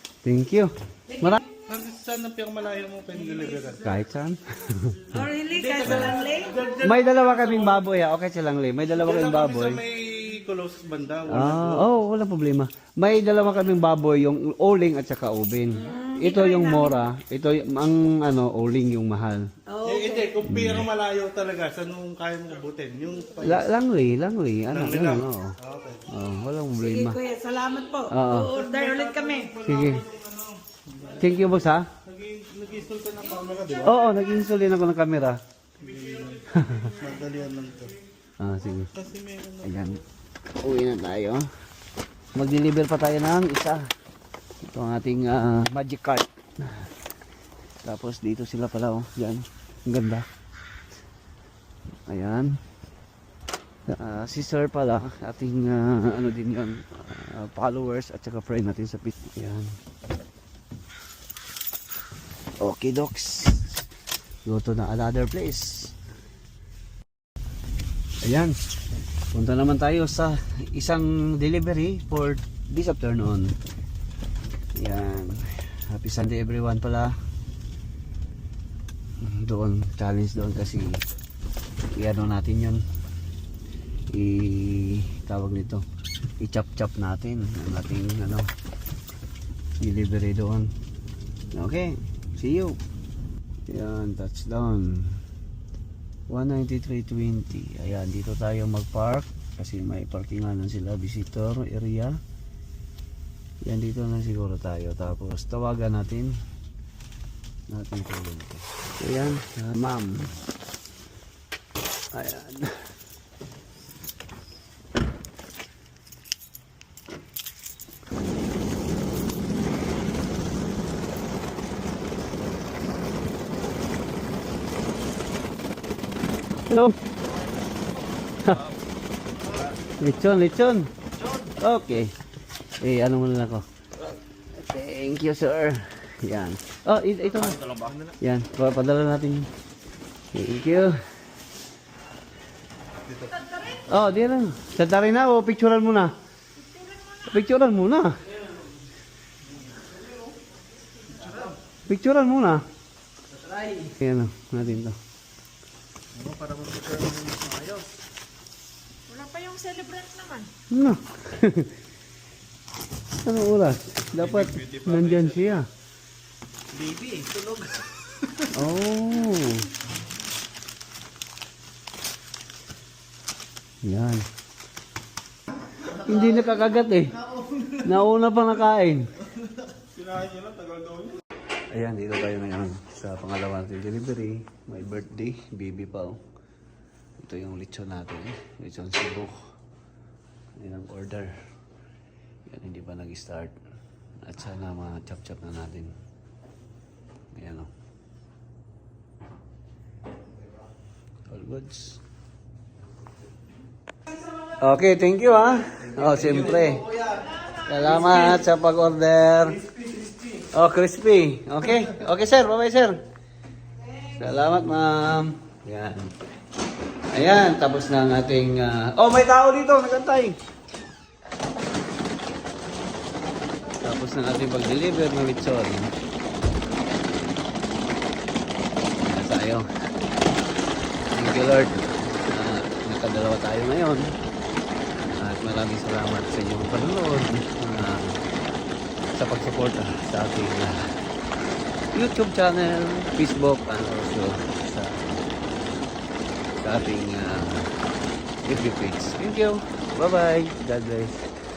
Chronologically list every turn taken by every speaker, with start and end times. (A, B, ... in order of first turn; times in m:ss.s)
0:00.2-0:01.4 A
0:01.1-0:01.5 B
0:01.5-0:04.0 C
0:03.8-0:05.3 A
0:05.1-0:06.6 B
0:05.5-0:07.8 C
0:05.8-0:06.2 A
0:06.8-0:09.8 A
0:09.0-0:11.9 C
0:11.3-0:19.5 A
0:15.8-0:17.0 B
0:19.7-0:20.4 B
0:19.8-0:23.7 C
0:20.4-0:20.9 A
0:23.4-0:25.6 A
0:24.7-0:26.1 C
0:26.1-0:27.2 A
0:26.8-0:29.5 B
0:28.1-0:28.5 A
0:28.5-0:31.5 C
0:29.6-0:30.0 A
0:31.2-0:31.9 A
0:32.0-0:34.0 C
0:33.8-0:35.4 A
0:35.8-0:38.0 C
0:36.5-0:36.9 A
0:38.4-0:38.9 A
0:38.9-0:40.0 C
0:39.6-0:40.0 A
0:40.6-0:41.5 A
0:42.4-0:43.8 A
0:44.6-0:46.9 A
0:47.8-0:50.3 A
0:52.1-0:52.6 A
0:53.9-0:59.7 A
1:02.6-1:03.8 A
1:04.4-1:05.9 A
1:08.2-1:08.6 A
1:09.3-1:13.5 A
1:14.8-1:17.2 A
1:19.2-1:21.0 A
1:21.9-1:22.8 A
1:24.1-1:25.8 A
1:26.4-1:28.5 A
1:29.8-1:30.7 A
1:31.5-1:32.8 A
1:33.7-1:35.2 A
1:36.3-1:42.2 A
1:43.6-1:46.4 A
1:47.7-1:50.4 A
1:52.1-1:52.9 A
2:06.7-2:07.0 A
2:10.0-2:10.9 A
2:11.5-2:12.1 A
2:12.8-2:13.6 A
2:14.5-2:19.5 A
2:20.3-2:21.0 A
2:23.1-2:23.4 C
2:23.4-2:23.8 B
2:23.8-2:26.1 A
2:27.2-2:28.2 A
2:31.1-2:31.5 C
2:31.8-2:32.6 A
2:33.9-2:35.0 A
2:36.2-2:37.8 C
2:39.1-2:40.5 B
2:40.7-2:41.7 A
2:43.2-2:45.7 A
2:44.2-2:45.6 C
2:46.7-2:47.7 C
2:48.5-2:49.7 A
2:53.8-2:54.2 A
2:55.8-2:59.1 A
2:59.9-3:01.2 C
3:01.7-3:06.2 A
3:07.2-3:09.4 A
3:10.6-3:11.3 A
3:12.5-3:13.6 A
3:14.2-3:15.9 A
3:17.3-3:17.7 A
3:21.3-3:22.0 A
3:24.5-3:26.9 A
3:27.5-3:29.6 A
3:30.5-3:33.0 A
3:34.0-3:36.1 A
3:37.1-3:40.4 A
3:43.8-3:45.9 A
3:49.0-3:49.7 A
3:51.1-3:54.1 A
3:55.1-3:58.2 A
3:59.1-4:01.0 A
4:01.9-4:05.2 A
4:06.6-4:07.8 A
4:08.4-4:11.2 A